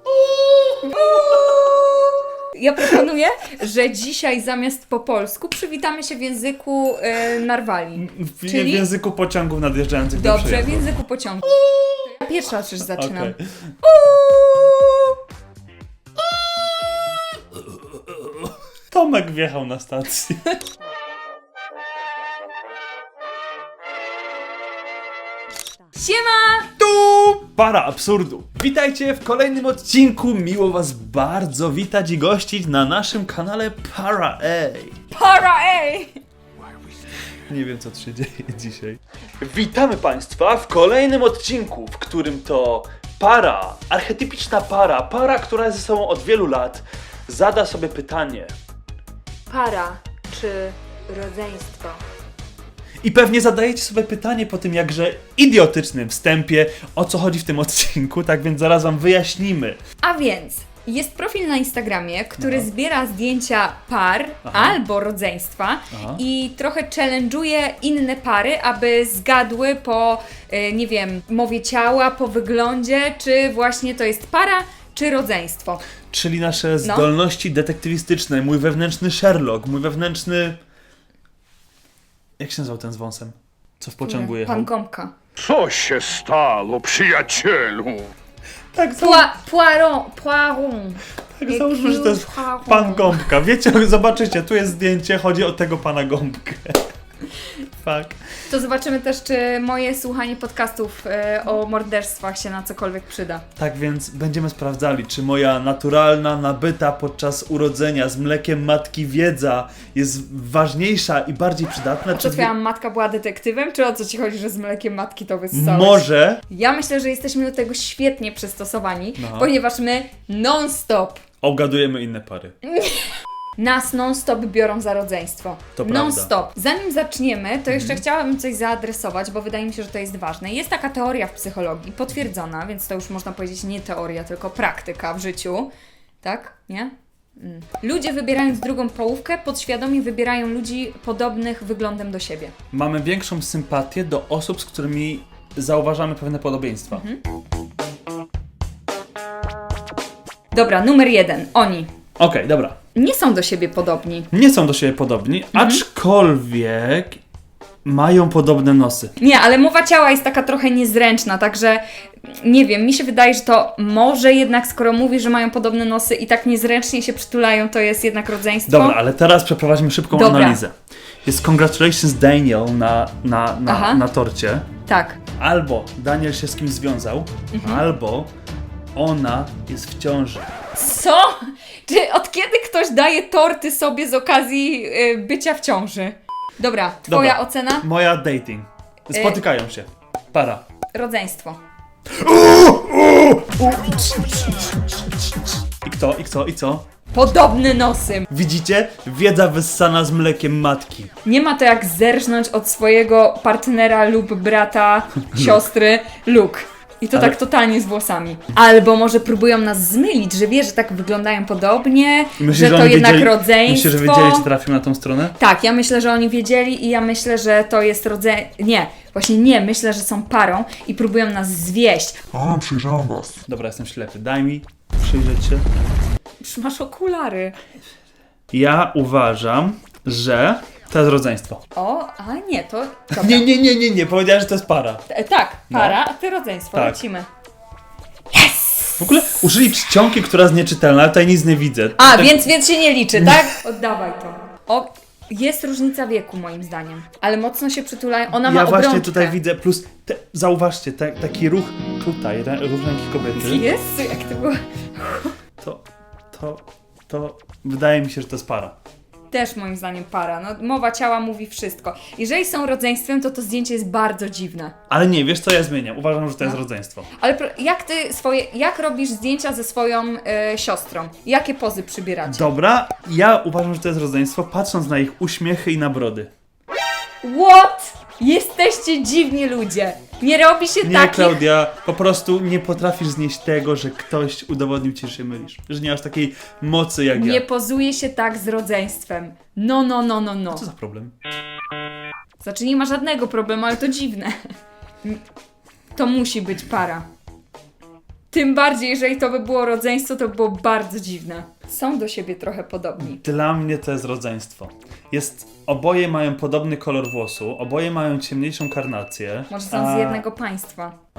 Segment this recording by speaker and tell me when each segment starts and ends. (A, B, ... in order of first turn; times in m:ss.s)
0:00.2-0:01.6 A
0:00.9-0:01.5 B
0:02.5-0:08.9 B
0:08.0-0:10.9 A
0:10.2-0:15.2 B
0:12.9-0:13.4 A
0:17.5-0:20.6 A
0:25.9-0:26.8 B
0:26.8-0:35.0 A
0:35.1-0:36.2 B
0:37.3-0:48.5 A
0:49.5-0:52.0 B
0:53.0-0:59.8 A
1:00.0-1:15.8 B
1:02.4-1:02.7 A
1:04.4-1:04.8 A
1:05.9-1:06.2 A
1:16.1-1:20.6 A
1:16.8-1:17.1 B
1:22.4-1:24.7 A
1:24.0-1:25.1 B
1:25.4-1:28.1 C
1:28.7-1:29.3 A
1:29.0-1:33.2 B
1:31.3-1:36.8 A
1:37.8-1:38.2 A
1:38.5-1:43.4 B
1:43.6-1:52.5 A
1:52.1-2:01.2 B
1:55.5-1:56.4 A
1:59.2-1:59.5 A
2:01.4-2:02.6 A
2:02.7-2:15.7 B
2:05.8-2:06.3 A
2:07.7-2:08.0 A
2:16.2-2:22.5 B
2:22.7-2:27.0 A
2:26.9-2:27.2 B
2:30.5-2:31.9 B
2:32.2-2:32.8 A
2:33.0-2:34.3 B
2:34.3-2:37.2 A
2:35.5-2:35.8 B
2:37.8-2:39.2 A
2:39.2-2:49.0 B
2:48.7-2:54.7 A
2:50.1-2:50.6 B
2:53.7-2:54.0 B
2:54.9-2:55.2 B
2:55.4-2:58.3 A
2:57.5-2:57.8 B
2:59.0-3:00.5 A
3:00.8-3:07.9 B
3:07.1-3:10.6 A
3:09.1-3:09.4 B
3:10.9-3:11.6 B
3:12.1-3:16.9 A
3:17.1-3:18.3 B
3:18.3-3:21.1 A
3:21.2-3:34.5 B
3:25.3-3:25.6 A
3:32.4-3:35.4 A
3:35.4-3:42.6 B
3:43.4-3:45.7 A
3:46.4-3:47.6 B
3:48.5-3:51.6 A
3:51.7-3:53.5 B
3:53.1-3:55.0 A
3:55.1-3:57.3 B
3:55.7-3:56.0 A
3:56.7-3:57.0 A
3:58.3-3:59.3 B
3:59.0-4:02.5 A
4:02.0-4:09.4 B
4:03.1-4:03.5 A
4:08.4-4:13.7 A
4:13.4-4:15.4 B
4:15.6-4:18.8 A
4:19.3-4:24.8 B
4:24.9-4:27.1 A
4:27.2-4:32.5 B
4:32.3-4:36.3 A
4:37.2-4:41.4 B
4:40.8-4:47.4 A
4:47.2-4:50.6 B
4:50.5-4:51.1 A
4:52.4-4:54.4 B
4:56.0-4:57.0 B
4:58.3-5:03.2 B
5:03.0-5:10.2 A
5:09.5-5:11.0 B